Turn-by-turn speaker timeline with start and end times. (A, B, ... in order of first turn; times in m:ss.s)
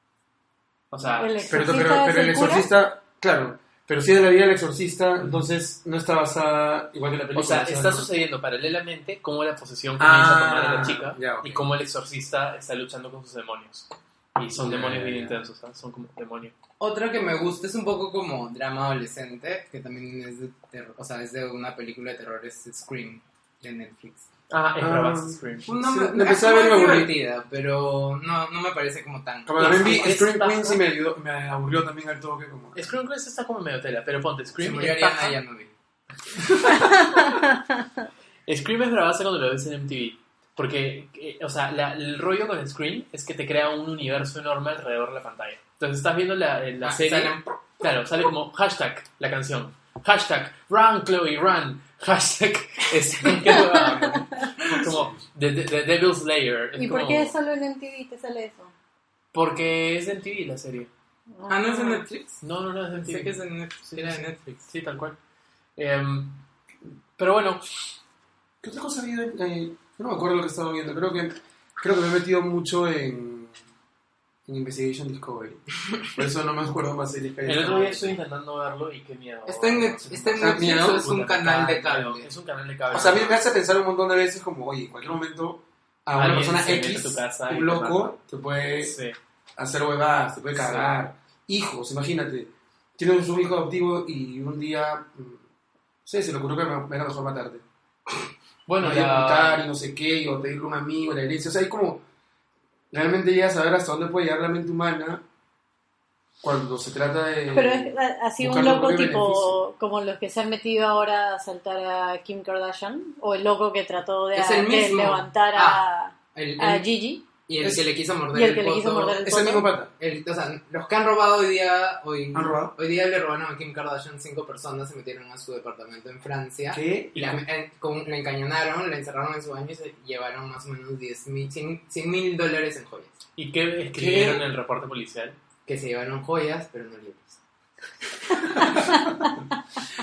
0:00.9-0:01.4 A
0:01.2-0:02.7 B
0:01.5-0:08.1 C
0:05.2-0:05.4 A
0:07.3-0:16.6 A
0:10.0-0:11.7 C
0:14.6-0:15.4 C
0:16.8-0:24.2 D
0:24.5-0:25.7 A
0:24.8-0:27.1 C
0:25.7-0:29.8 D
0:29.4-0:32.8 C
0:29.6-0:30.8 A
0:32.7-0:35.4 A
0:34.6-0:35.7 D
0:38.5-0:57.3 A
0:46.8-0:47.6 D
0:54.7-0:55.0 C
0:56.8-0:58.7 B
0:59.3-1:00.9 A
1:01.4-1:02.0 B
1:01.5-1:02.4 D
1:02.4-1:05.2 A
1:02.9-1:04.7 D
1:05.8-1:06.4 A
1:07.2-1:07.8 A
1:08.6-1:13.5 C
1:14.5-1:18.2 C
1:17.4-1:23.4 A
1:19.4-1:22.3 D
1:20.3-1:21.1 C
1:22.9-1:29.0 C
1:26.2-1:28.2 A
1:28.8-1:29.2 A
1:29.6-1:35.4 C
1:30.5-1:30.9 A
1:36.0-1:37.6 C
1:38.7-1:39.6 A
1:38.8-1:42.0 C
1:42.9-1:45.2 C
1:46.4-1:49.6 C
1:47.5-1:57.2 B
1:54.3-1:55.8 D
1:56.3-1:56.9 D
1:57.4-1:59.4 D
1:57.6-1:57.9 C
1:58.3-1:59.7 B
1:59.2-1:59.9 C
2:00.0-2:13.2 D
2:02.3-2:02.7 C
2:06.7-2:07.4 C
2:13.4-2:15.4 A
2:13.9-2:14.4 C
2:15.6-2:17.4 D
2:18.3-2:18.8 D
2:18.6-2:19.0 C